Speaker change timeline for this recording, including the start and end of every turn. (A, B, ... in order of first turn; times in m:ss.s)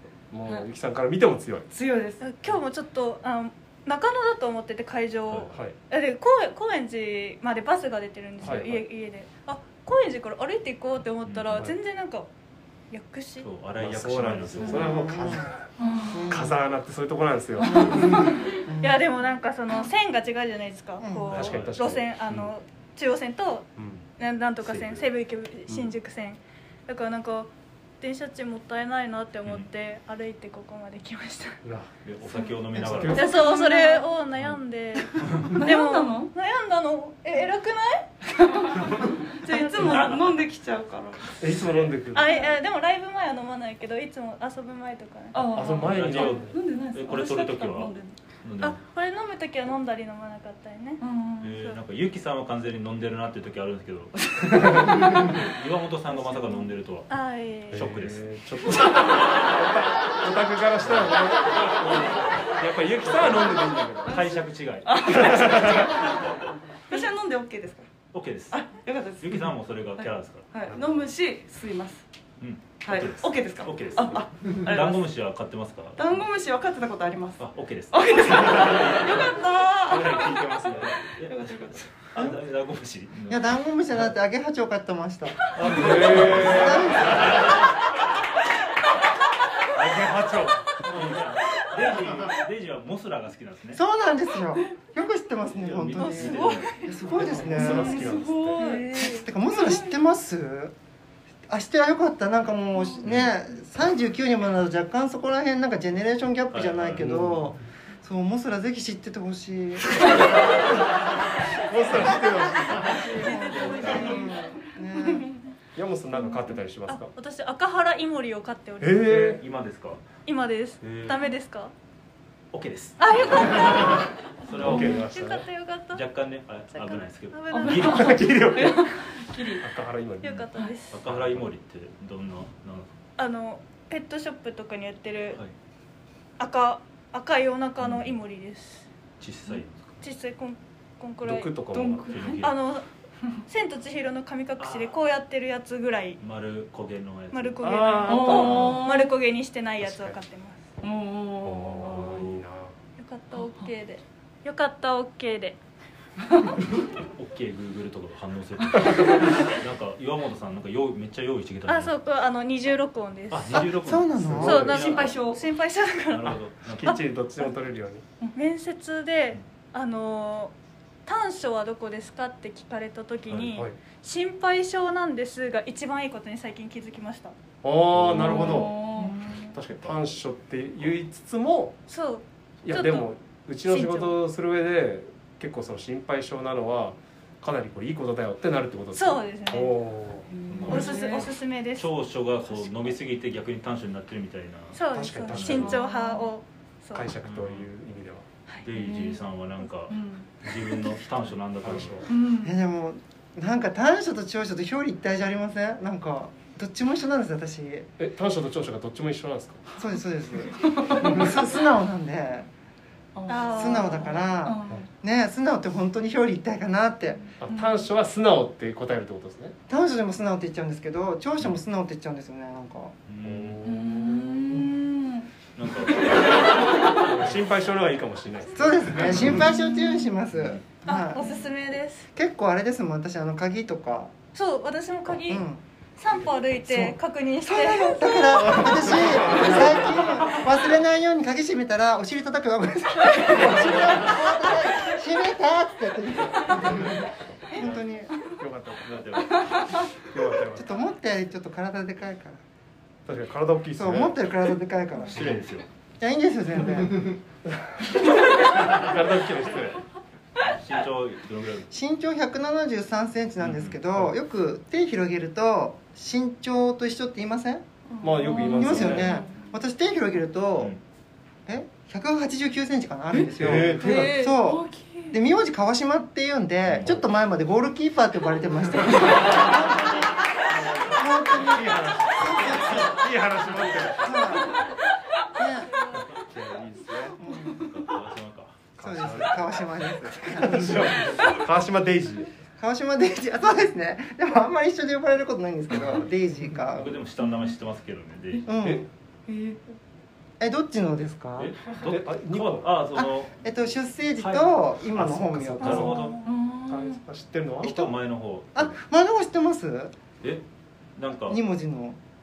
0:00.3-0:01.7 A
0:01.7-0:02.2 B
0:02.2-0:12.3 C
0:08.4-0:08.8 A
0:11.2-0:11.7 D
0:12.9-0:13.5 C
0:13.4-0:15.0 D
0:13.8-0:15.6 A
0:14.7-0:15.5 E
0:15.8-0:16.4 B
0:16.1-0:16.5 E
0:16.3-0:18.3 A
0:17.6-0:18.4 B
0:17.7-0:19.0 E
0:18.5-0:23.7 C
0:21.0-0:21.3 E
0:21.3-0:21.8 D
0:21.3-0:22.5 A
0:23.8-0:24.0 A
0:24.2-0:31.6 C
0:24.6-0:25.1 D
0:31.6-0:31.9 A
0:32.0-0:33.3 D
0:32.3-0:34.1 B
0:32.8-0:33.4 A
0:33.1-0:38.1 C
0:35.2-0:35.6 D
0:35.4-0:36.3 B
0:38.2-0:41.4 B
0:38.7-0:40.2 C
0:39.8-0:40.4 D
0:41.4-0:42.3 A
0:41.4-0:41.9 D
0:42.1-0:45.6 C
0:42.2-0:42.5 B
0:45.3-0:48.2 B
0:45.5-0:46.5 A
0:45.6-0:48.8 D
0:48.6-0:51.8 C
0:51.0-0:51.6 B
0:51.4-0:57.1 D
0:54.4-0:55.4 B
0:56.2-0:56.6 B
0:57.1-0:57.9 C
0:57.7-0:58.3 D
0:57.7-1:04.4 A
1:00.8-1:01.1 D
1:01.8-1:02.2 D
1:03.0-1:06.3 D
1:04.0-1:06.3 B
1:05.0-1:06.0 A
1:06.9-1:07.9 B
1:08.1-1:08.6 D
1:08.5-1:12.0 B
1:09.2-1:10.5 D
1:10.7-1:11.0 A
1:12.4-1:16.0 D
1:12.8-1:15.1 B
1:16.0-1:20.5 B
1:17.4-1:19.3 D
1:19.9-1:21.0 A
1:20.3-1:23.6 D
1:21.2-1:21.9 B
1:23.3-1:27.6 E
1:25.5-1:27.5 D
1:25.6-1:27.4 A
1:29.7-1:31.1 A
1:30.8-1:33.8 D
1:33.7-1:38.1 E
1:35.5-1:37.4 D
1:36.0-1:36.8 C
1:37.1-1:38.7 A
1:37.6-1:39.9 B
1:38.6-1:39.2 C
1:39.0-1:40.7 E
1:41.5-1:50.7 E
1:43.0-1:43.3 D
1:46.5-1:47.2 D
1:47.0-1:47.4 A
1:51.6-1:53.1 A
1:52.9-1:55.4 B
1:53.1-1:55.3 E
1:53.1-1:54.0 C
1:53.5-1:54.1 D
1:55.8-1:57.1 A
1:56.9-1:59.4 C
1:58.8-1:59.4 A
1:59.0-2:00.0 D
2:00.2-2:01.7 C
2:00.8-2:01.2 D
2:02.5-2:05.0 D
2:03.0-2:04.0 C
2:04.6-2:05.4 A
2:04.7-2:05.0 B
2:04.7-2:06.0 C
2:05.9-2:08.4 D
2:06.8-2:08.1 C
2:07.5-2:09.7 B
2:07.9-2:08.9 A
2:09.6-2:10.4 A
2:10.2-2:11.0 C
2:10.9-2:12.9 D
2:11.0-2:11.4 A
2:13.2-2:15.4 C
2:16.4-2:18.9 C
2:17.8-2:18.2 D
2:19.2-2:20.0 D
2:20.0-2:21.5 C
2:21.2-2:22.1 A
2:21.7-2:22.5 B
2:22.1-2:22.6 D
2:22.4-2:22.9 C
2:23.4-2:26.2 C
2:24.6-2:24.9 D
2:26.2-2:28.8 D
2:27.3-2:30.6 C
2:27.6-2:28.8 A
2:28.0-2:29.1 B
2:29.8-2:30.2 A
2:30.8-2:32.3 B
2:31.4-2:32.7 A
2:32.0-2:32.4 D
2:33.0-2:35.6 C
2:33.4-2:33.7 B
2:36.3-2:36.5 B
2:37.2-2:41.9 D
2:41.7-2:43.6 C
2:43.3-2:45.2 D
2:43.5-2:44.8 E
2:44.2-2:44.8 A
2:44.4-2:47.0 C
2:44.7-2:45.4 B
2:46.1-2:47.0 D
2:46.8-2:48.0 A
2:48.3-2:50.5 C
2:51.0-2:57.3 C
2:53.3-2:53.6 D
2:57.6-2:58.8 A
2:57.9-2:58.7 D
2:58.1-2:59.3 B
2:59.0-2:59.4 C
2:59.5-3:01.8 A
3:01.9-3:03.1 C
3:02.6-3:10.8 A
3:03.6-3:04.2 C
3:08.9-3:09.8 C
3:10.3-3:11.3 B
3:10.5-3:15.8 D
3:10.7-3:11.9 C
3:14.8-3:17.1 C
3:14.9-3:15.8 A
3:15.6-3:16.3 B
3:16.9-3:18.2 A
3:17.2-3:17.7 D
3:18.6-3:22.0 D
3:18.7-3:19.2 B
3:19.9-3:20.5 B
3:21.6-3:22.1 A
3:22.1-3:22.6 B
3:22.4-3:27.9 E
3:28.0-3:29.6 A
3:29.8-3:32.5 E
3:30.6-3:31.2 B
3:33.1-3:34.9 B
3:33.3-3:34.2 C
3:33.5-3:37.3 E
3:37.4-3:39.5 A
3:37.4-3:37.9 B
3:39.7-3:42.9 E
3:43.1-3:43.6 D
3:43.2-3:44.7 A
3:43.6-3:45.3 B
3:45.6-3:46.6 D
3:45.9-3:47.0 B
3:46.9-3:49.4 A
3:48.5-3:51.2 E
3:49.0-3:49.4 D
3:49.4-3:50.1 B
3:50.3-3:50.6 D
3:50.8-3:52.1 C
3:51.2-3:51.4 B
3:52.1-3:54.1 E
3:54.3-3:55.4 C
3:55.3-3:55.6 E
3:56.0-3:59.2 C
3:56.6-4:08.1 E
3:58.4-4:00.0 A
4:03.4-4:03.6 A
4:07.6-4:10.7 A
4:09.4-4:09.8 B
4:10.5-4:12.4 E
4:13.1-4:14.4 A
4:13.8-4:15.4 E
4:15.1-4:15.6 D
4:16.0-4:17.2 E
4:17.5-4:19.8 A
4:20.4-4:21.7 D
4:21.7-4:27.6 E
4:23.4-4:23.8 D
4:27.9-4:29.5 B
4:28.0-4:29.1 A
4:28.4-4:30.7 E
4:31.5-4:43.0 E
4:33.1-4:35.2 B
4:33.4-4:34.1 A
4:36.7-4:37.0 D
4:40.6-4:44.4 A
4:44.0-4:44.6 E
4:45.4-4:46.0 E
4:46.1-4:47.2 A
4:47.2-4:47.7 E
4:47.5-4:48.6 D
4:48.8-4:49.6 A
4:48.8-4:51.2 E
4:50.3-4:52.3 A
4:52.6-4:57.0 E
4:56.7-4:58.5 D
4:57.2-4:57.6 B
4:58.4-4:58.9 E
4:59.3-4:59.6 B
5:00.4-5:01.5 E
5:01.4-5:03.4 D
5:01.8-5:02.7 A
5:02.9-5:06.1 E
5:04.2-5:06.2 D
5:05.6-5:06.1 A
5:05.8-5:07.0 B
5:06.7-5:07.8 A
5:07.6-5:07.9 E
5:07.6-5:08.8 D
5:08.6-5:09.9 E
5:11.0-5:11.4 D
5:11.3-5:12.0 E